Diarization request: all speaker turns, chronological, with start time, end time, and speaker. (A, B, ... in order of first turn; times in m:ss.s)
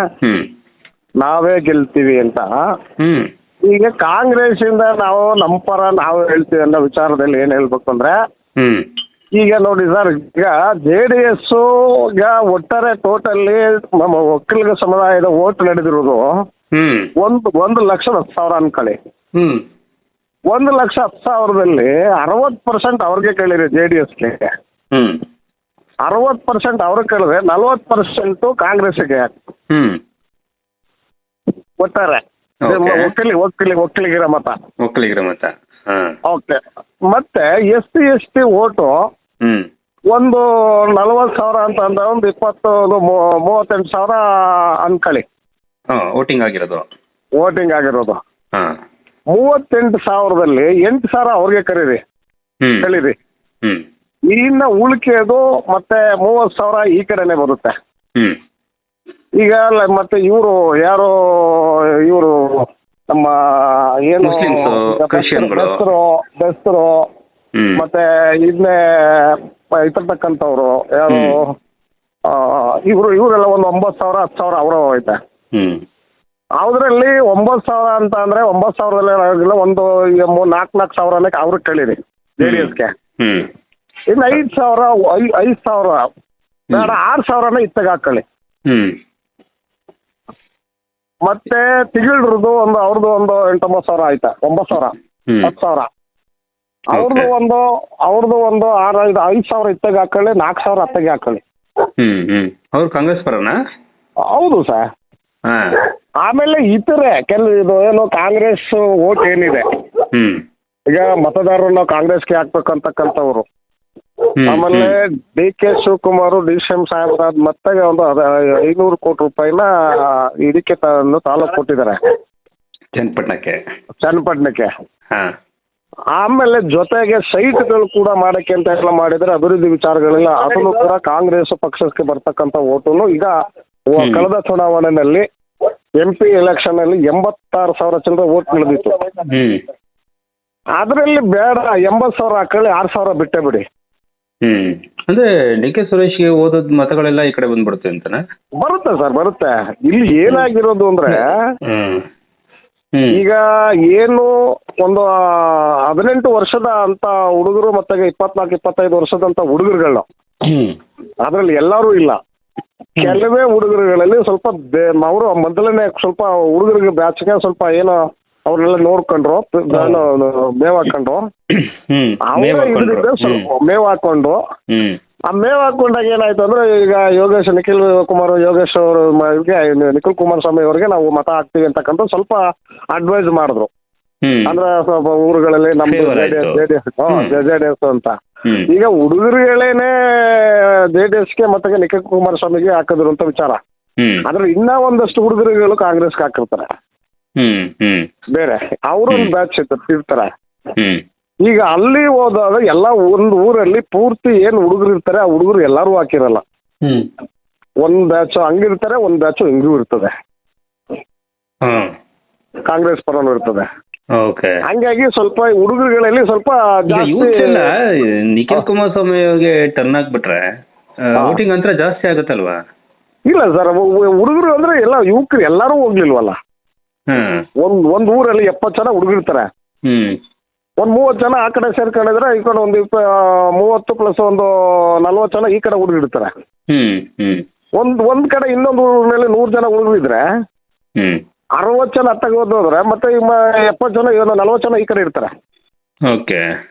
0:01.2-0:02.5 A
0:03.0-0:03.3 B
0:03.6-0:08.2 A
0:08.6-0:08.9 B
0:09.4-0:16.3 A
0:16.7-0:17.1 B
0:17.2-0:19.0 A
0:19.4-0:19.6 B
0:20.5-0:24.5 A
0:24.9-0:25.2 B
0:26.0-0:29.3 A
0:29.7-0:30.0 B
0:31.8-0:34.6 A
0:32.6-0:33.1 B
0:34.8-0:36.1 B
0:36.3-0:38.9 A
0:40.1-0:45.2 A
0:45.9-0:46.9 B
0:47.4-0:48.2 A
0:49.3-0:52.0 A
0:52.6-0:52.9 B
0:52.8-0:53.2 A
0:54.3-0:57.7 A
0:59.4-1:07.1 A
1:04.2-1:05.8 B
1:07.6-1:07.8 B
1:07.8-1:11.6 A
1:11.1-1:11.4 B
1:12.3-1:15.2 A
1:15.5-1:15.8 B
1:16.6-1:22.9 A
1:22.4-1:23.5 B
1:24.1-1:26.0 A
1:26.7-1:27.0 B
1:26.7-1:28.2 A
1:28.7-1:29.0 B
1:31.2-1:35.9 A
1:36.9-1:41.4 A
1:36.9-1:37.3 B
1:42.0-1:43.6 B
1:44.3-1:44.9 A
1:45.5-1:45.8 B
1:46.2-1:49.6 A
1:50.1-1:50.4 B
1:50.9-1:53.5 A
1:54.4-1:55.0 B
1:54.5-2:02.0 A
2:03.0-2:03.6 B
2:04.0-2:04.7 A
2:06.2-2:13.3 A
2:13.9-2:15.3 A
2:14.0-2:14.3 B
2:16.0-2:19.0 A
2:19.3-2:19.6 B
2:20.8-2:23.6 A
2:24.4-2:28.2 B
2:28.6-2:31.4 A
2:31.1-2:32.0 B
2:32.9-2:33.2 B
2:33.1-2:40.1 A
2:40.4-2:40.8 B
2:41.2-2:42.2 A
2:43.0-2:51.3 A
2:49.7-2:50.0 B
2:51.5-2:53.5 B
2:52.3-2:54.4 A
2:54.7-2:55.0 B
2:55.3-3:02.4 A
3:02.9-3:03.7 A
3:04.2-3:04.6 B
3:04.5-3:08.2 A
3:05.8-3:07.4 B
3:08.7-3:13.6 A
3:14.2-3:16.7 A
3:17.4-3:18.1 B
3:18.3-3:20.3 A
3:20.8-3:21.0 B
3:21.4-3:26.4 A
3:26.8-3:27.1 B
3:27.8-3:30.1 A
3:31.6-3:31.9 B
3:32.7-3:33.7 A
3:34.2-3:34.6 B
3:34.7-3:37.7 A
3:36.9-3:40.4 B
3:41.0-3:42.6 B
3:43.3-3:46.4 A
3:47.1-3:47.4 B
3:47.6-3:49.5 A
3:49.9-3:50.2 B
3:50.8-3:56.3 A
3:56.7-3:57.4 B
3:57.8-4:00.2 A
4:01.6-4:05.3 A
4:06.1-4:06.4 B